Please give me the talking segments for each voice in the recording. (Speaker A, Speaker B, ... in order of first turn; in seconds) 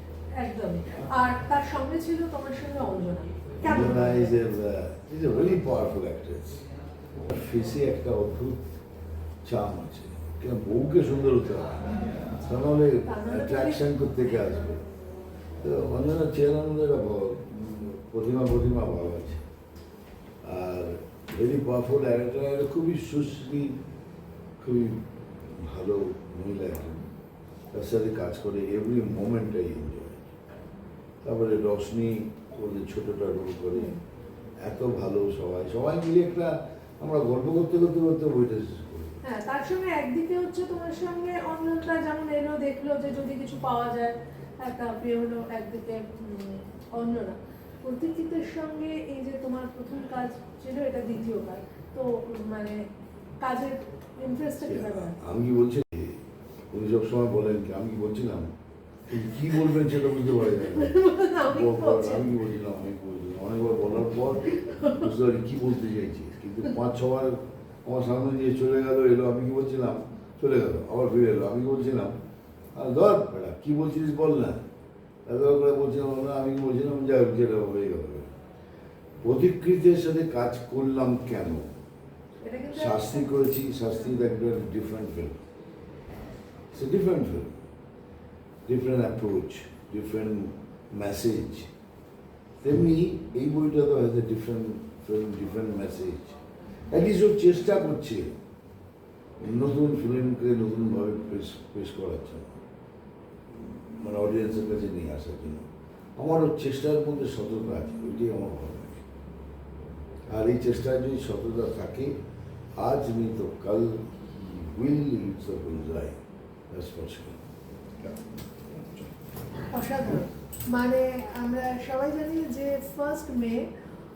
Speaker A: 0.3-4.3, 13.1-14.0, 39.2-52.8, 53.4-55.1, 60.5-62.3, 64.6-65.0, 82.4-84.2, 119.7-123.7
Speaker B: 3.6-6.6, 7.2-8.6, 9.4-14.8, 15.6-19.4, 20.4-23.8, 24.6-27.1, 27.7-30.3, 31.2-33.9, 34.6-39.2, 54.6-58.5, 59.1-72.2, 72.7-74.6, 75.3-78.3, 79.2-81.7, 82.7-85.4, 86.7-87.6, 88.7-91.7, 92.6-96.4, 96.9-98.3, 99.4-102.6, 103.6-105.6, 106.2-109.0, 110.3-112.2, 112.8-116.2, 116.7-117.4